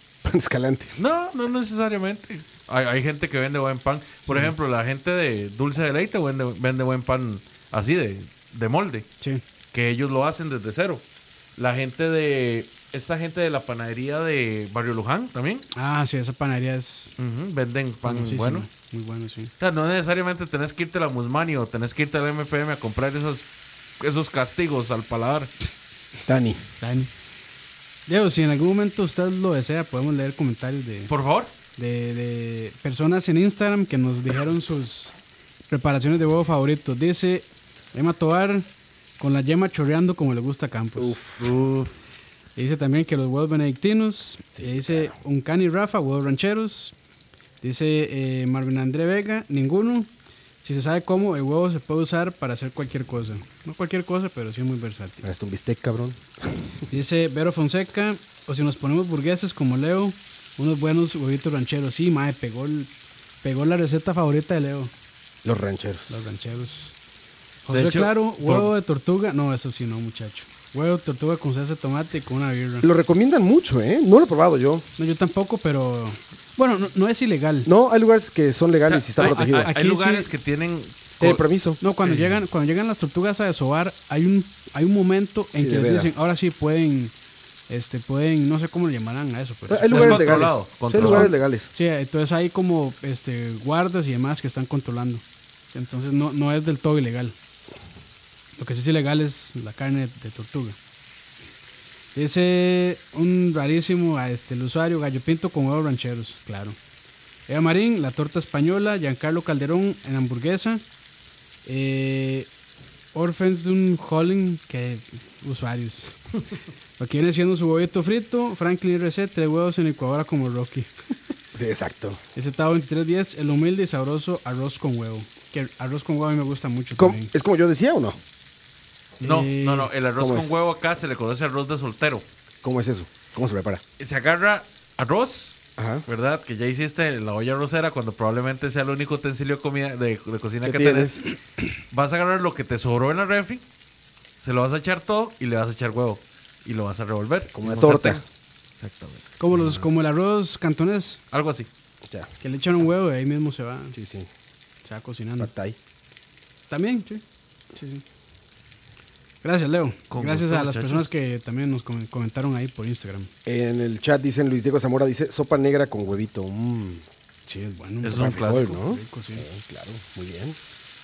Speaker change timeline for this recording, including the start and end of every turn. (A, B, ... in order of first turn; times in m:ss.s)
0:00.2-0:01.0 A
0:01.0-0:09.1 B
0:04.2-0:04.5 C
0:09.7-0:11.0 B
0:11.6-0:15.6 B
0:15.7-0:17.2 C
0:17.2-0:18.7 B
0:18.0-0:19.5 C
0:19.6-0:23.4 B
0:24.0-0:25.5 B
0:26.2-0:26.6 A
0:26.8-0:27.1 C
0:28.1-0:31.1 C
0:31.1-0:31.5 B
0:31.8-0:35.2 C
0:35.7-0:38.7 C
0:39.2-0:41.2 C
0:41.0-0:41.5 A
0:41.4-0:42.0 B
0:42.6-0:46.9 C
0:44.5-0:45.1 A
0:47.6-0:50.1 C
0:50.6-0:55.2 C
0:55.2-0:56.6 A
0:56.9-1:02.9 C
1:03.4-1:04.9 C
1:05.4-1:06.3 A
1:06.1-1:07.0 C
1:07.6-1:12.9 C
1:07.7-1:08.7 B
1:12.8-1:14.9 A
1:15.0-1:17.7 C
1:17.6-1:19.7 A
1:18.8-1:21.4 B
1:19.2-1:20.3 C
1:21.2-1:21.8 A
1:21.8-1:27.1 C
1:22.0-1:22.4 B
1:25.6-1:26.1 A
1:27.7-1:30.3 C
1:29.7-1:31.7 A
1:29.9-1:31.3 B
1:31.0-1:37.4 C
1:38.6-1:40.8 C
1:42.1-1:46.8 C
1:47.5-1:50.8 C
1:51.6-1:52.5 C
1:53.1-1:56.2 C
1:57.0-2:00.9 C
2:01.5-2:02.2 A
2:02.3-2:07.3 C
2:06.9-2:08.2 A
2:09.2-2:09.9 C
2:09.2-2:12.2 B
2:10.2-2:10.5 A
2:12.6-2:13.8 A
2:14.0-2:21.3 B
2:15.8-2:16.0 A
2:20.6-2:21.3 A
2:21.9-2:23.6 B
2:24.4-2:28.2 B
2:27.5-2:28.2 A
2:28.8-2:29.2 B
2:29.4-2:31.2 C
2:29.5-2:29.8 A
2:31.3-2:31.7 B
2:32.4-2:33.9 C
2:33.9-2:34.3 A
2:34.8-2:35.5 C
2:35.4-2:35.8 A
2:36.7-2:37.2 C
2:37.7-2:38.0 C
2:39.4-2:43.3 C
2:40.1-2:41.1 B
2:43.4-2:47.0 A
2:47.5-2:49.4 C
2:48.0-2:48.7 B
2:48.1-2:50.6 A